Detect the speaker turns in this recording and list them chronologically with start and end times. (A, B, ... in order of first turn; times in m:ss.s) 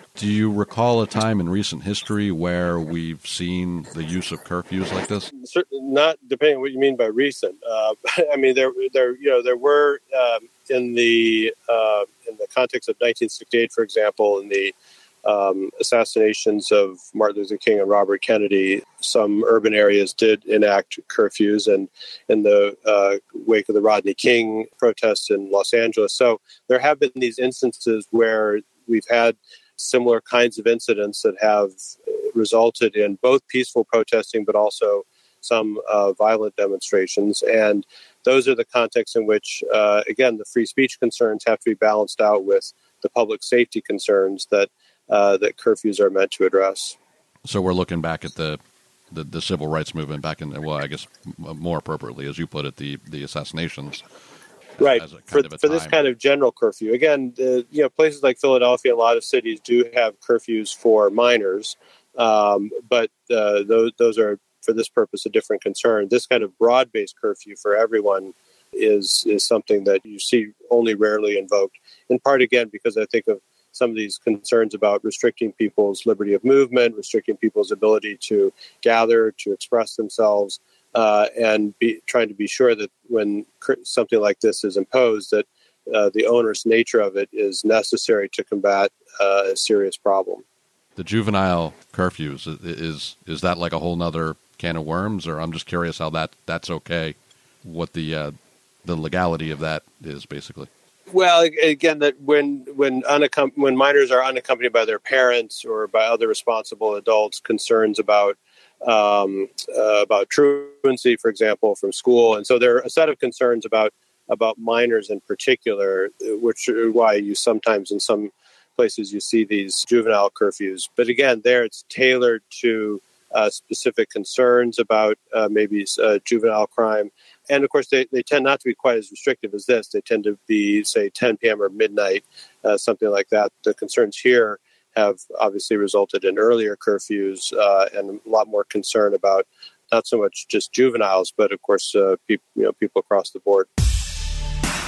0:00.1-0:05.3 A
0:05.4-0:47.0 B
0:47.4-0:48.6 A
0:49.1-0:54.0 A
0:54.8-0:56.0 A
0:54.8-1:30.4 B
1:31.0-1:38.3 A
1:38.8-1:40.7 A
1:41.1-2:23.7 B